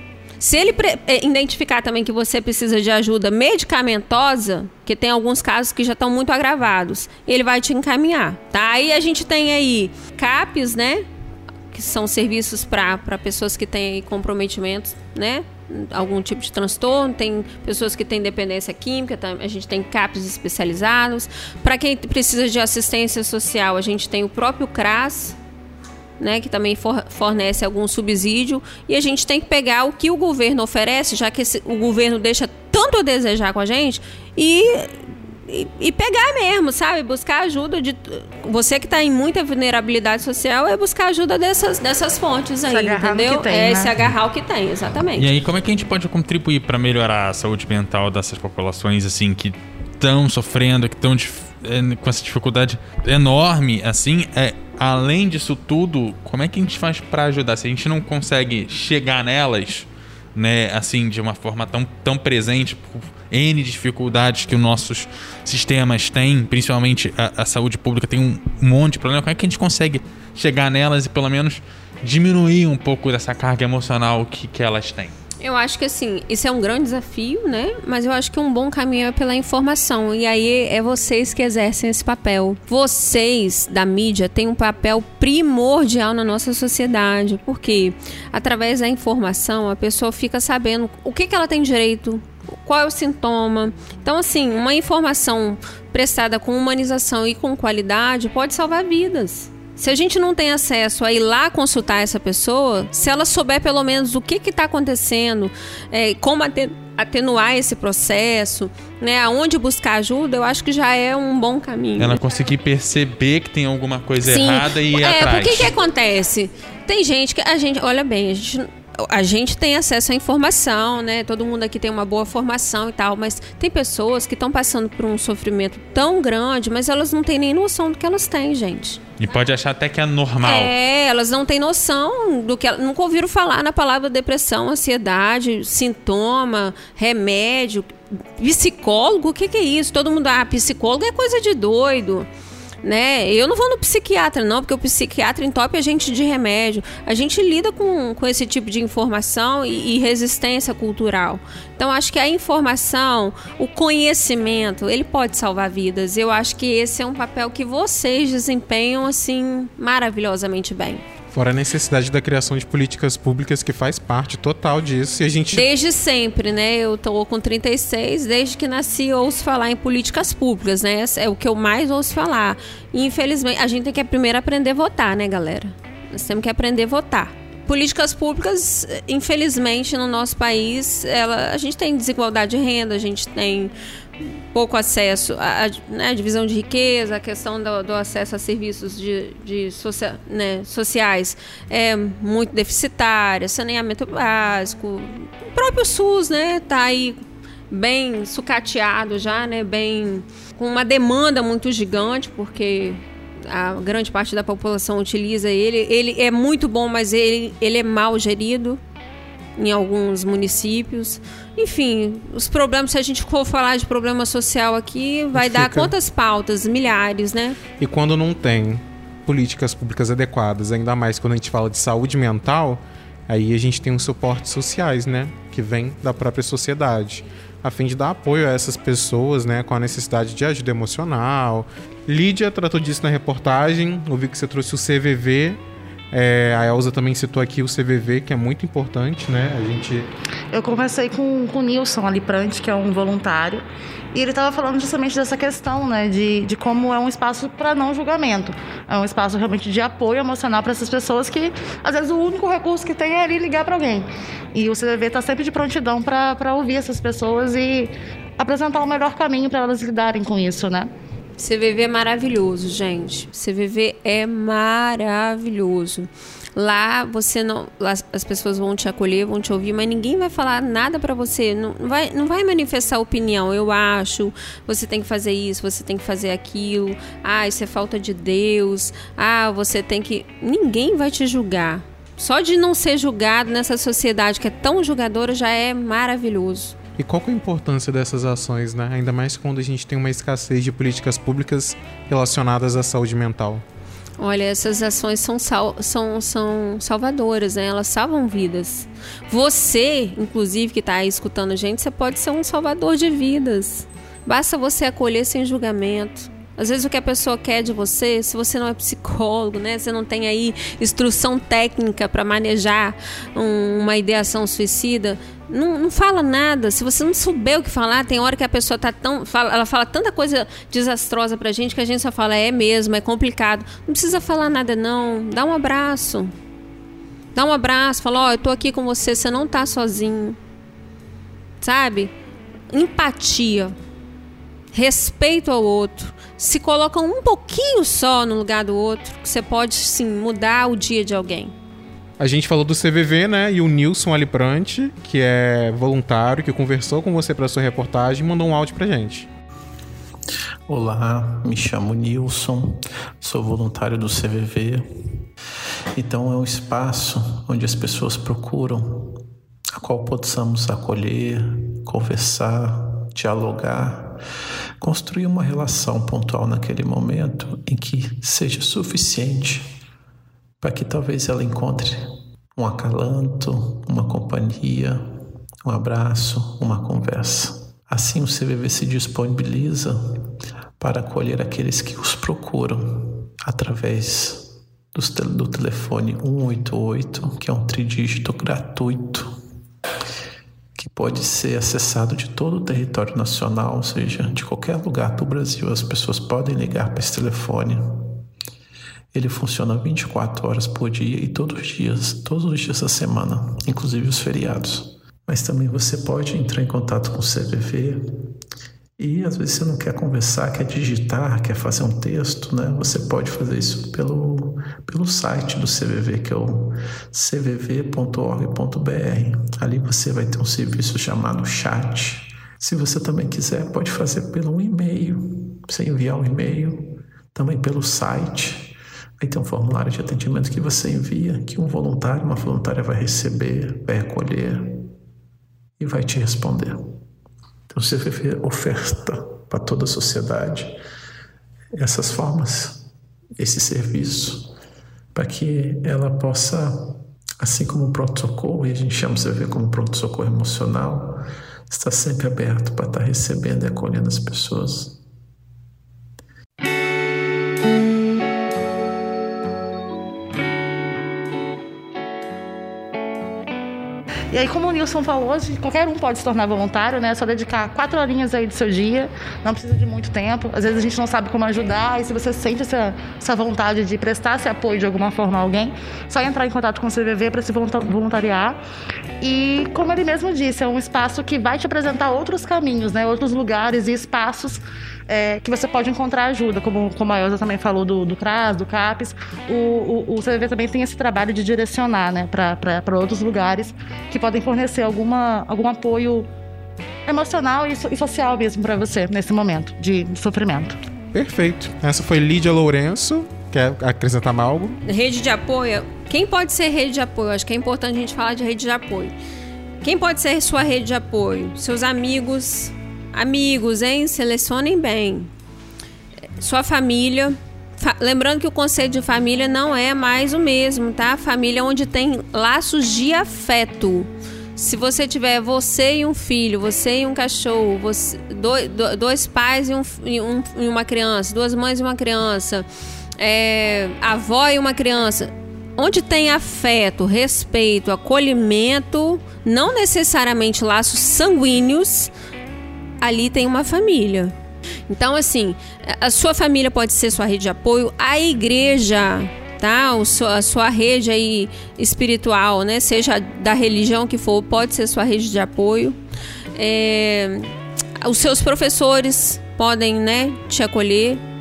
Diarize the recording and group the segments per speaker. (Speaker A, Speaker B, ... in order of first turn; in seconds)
Speaker A: 0.4-11.0, 11.7-25.4, 26.2-45.3, 75.4-112.2, 114.2-129.0, 130.4-142.3, 142.8-161.0, 165.5-208.8, 209.6-217.6, 261.4-286.7, 294.2-326.3, 327.3-330.4, 331.6-332.1, 332.7-333.8, 334.7-341.5, 504.8-509.1, 509.8-515.3, 516.4-532.6, 533.2-542.1, 543.0-544.3, 544.9-556.0, 556.5-561.2
Speaker B: 42.7-44.0, 240.5-260.9, 464.3-478.6, 479.2-496.3, 497.1-500.8
Speaker C: 45.1-75.1, 112.0-115.7, 129.2-130.7
Speaker D: 161.3-165.7, 215.3-215.9, 217.8-240.1, 287.0-293.6, 342.2-349.3, 501.1-504.8
Speaker E: 350.7-354.9, 355.9-359.2, 359.8-364.2, 364.8-369.8, 370.6-375.0, 375.6-389.3, 390.8-398.2, 399.1-408.0, 409.0-434.9, 435.8-436.8, 437.7-440.8, 441.7-444.5, 445.1-455.0